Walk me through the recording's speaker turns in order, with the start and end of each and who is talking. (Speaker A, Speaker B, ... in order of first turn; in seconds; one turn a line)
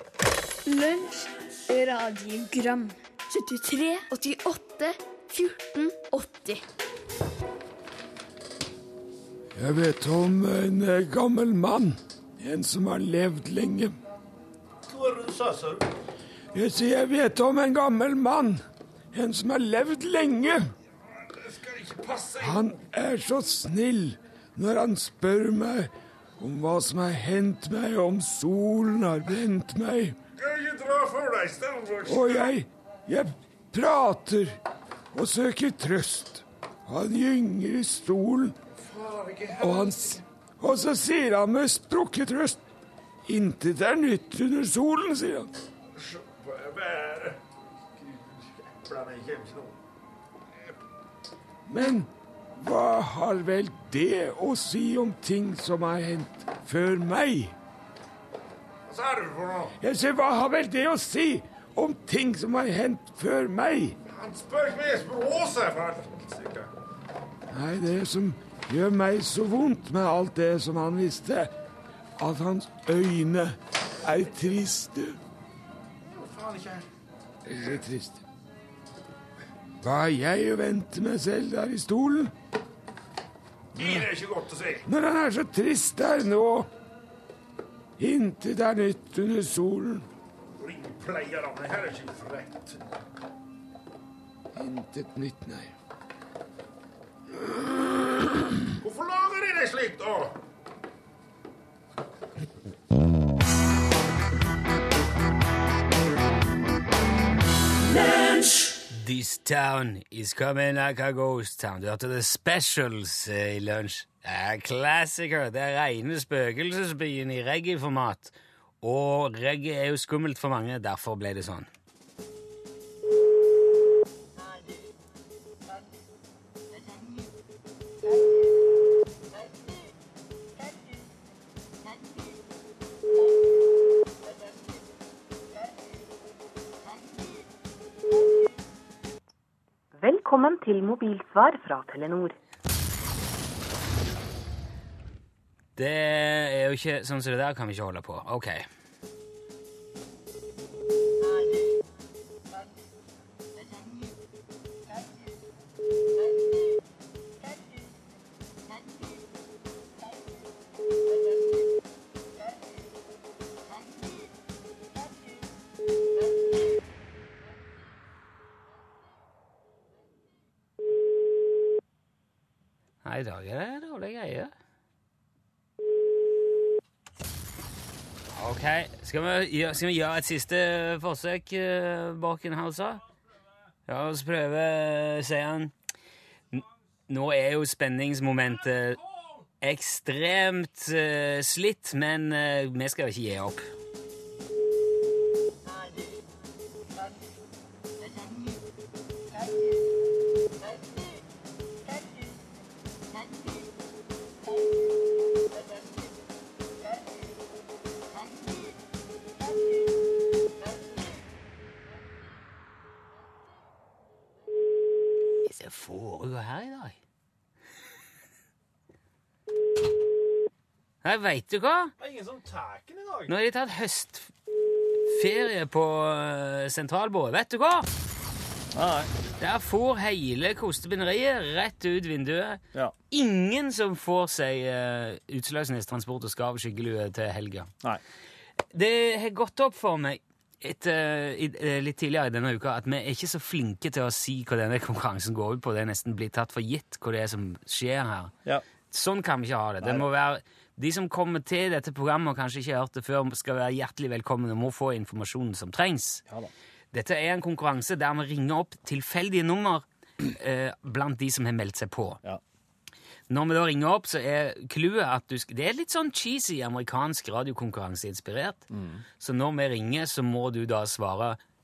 Speaker A: 0.7-6.6
Speaker B: 9.5-13.9
Speaker C: 14.9-15.8
Speaker B: 16.5-18.6
Speaker B: 19.1-20.7
Speaker C: 21.3-22.6
Speaker B: 22.4-30.2
Speaker C: 30.4-32.5
Speaker B: 32.0-34.5
Speaker B: 35.1-38.6
Speaker C: 38.8-40.1
Speaker B: 39.6-42.6
Speaker B: 43.2-45.5
Speaker C: 46.0-47.4
Speaker C: 48.0-49.7
Speaker B: 51.6-57.5
Speaker C: 58.9-59.7
Speaker B: 59.8-64.0
Speaker C: 64.0-66.7
Speaker B: 67.5-71.5
Speaker B: 72.2-75.2
Speaker C: 76.0-76.8
Speaker B: 77.5-78.2
Speaker B: 79.8-82.3
Speaker C: 83.7-84.8
Speaker B: 84.8-86.7
Speaker B: 88.0-90.0
Speaker C: 90.6-92.8
Speaker B: 94.5-95.7
Speaker B: 97.4-97.9
Speaker C: 98.8-100.3
Speaker D: 108.9-121.7
Speaker E: 139.9-142.3
Speaker D: 145.8-148.7
Speaker D: 173.0-174.5
Speaker D: 178.3-183.0
Speaker D: 183.9-185.7
Speaker D: 186.5-189.0
Speaker D: 189.6-193.6
Speaker D: 215.4-217.0
Speaker D: 221.0-221.9
Speaker F: 222.0-223.3
Speaker D: 223.3-224.3
Speaker D: 225.0-227.9
Speaker F: 228.7-229.1
Speaker D: 229.4-237.7
Speaker D: 238.7-248.3
Speaker D: 248.9-256.2
Speaker F: 249.8-250.1
Speaker D: 256.9-262.2
Speaker D: 263.3-268.6
Speaker F: 268.7-269.0
Speaker D: 269.2-271.4